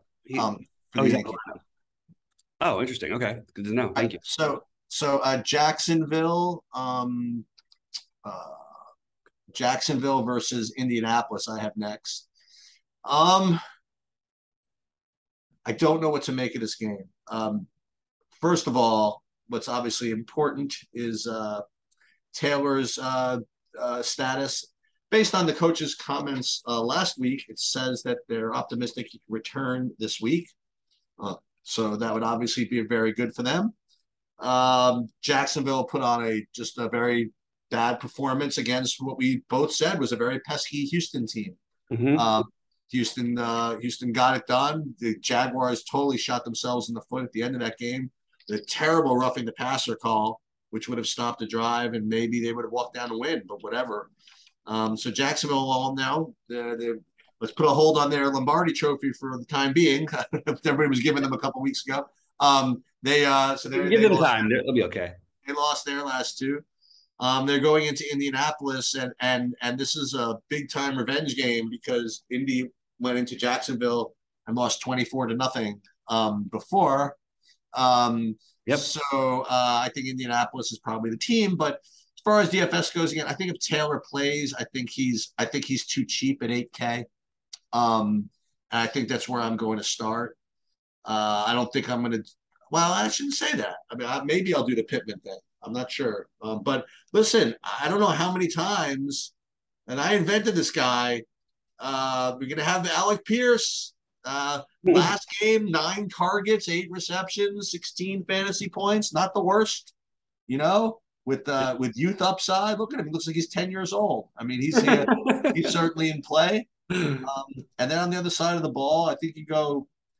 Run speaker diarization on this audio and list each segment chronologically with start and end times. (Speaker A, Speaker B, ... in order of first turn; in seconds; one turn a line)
Speaker A: 0.3-1.6
Speaker B: 0.3-1.4
Speaker A: 2.6-4.2
Speaker B: 4.0-7.5
Speaker B: 8.2-8.8
Speaker B: 9.5-12.3
Speaker B: 13.0-13.6
Speaker B: 15.6-17.7
Speaker B: 18.4-21.6
Speaker B: 22.3-30.5
Speaker B: 31.2-33.7
Speaker B: 34.4-41.6
Speaker A: 41.9-42.2
Speaker B: 42.1-54.1
Speaker B: 54.6-64.5
Speaker A: 63.7-65.1
Speaker B: 65.4-66.6
Speaker B: 67.2-77.2
Speaker B: 77.7-87.0
Speaker B: 87.7-90.3
Speaker B: 91.0-99.3
Speaker B: 99.9-101.2
Speaker B: 101.8-109.9
Speaker B: 110.5-119.9
Speaker A: 114.7-115.7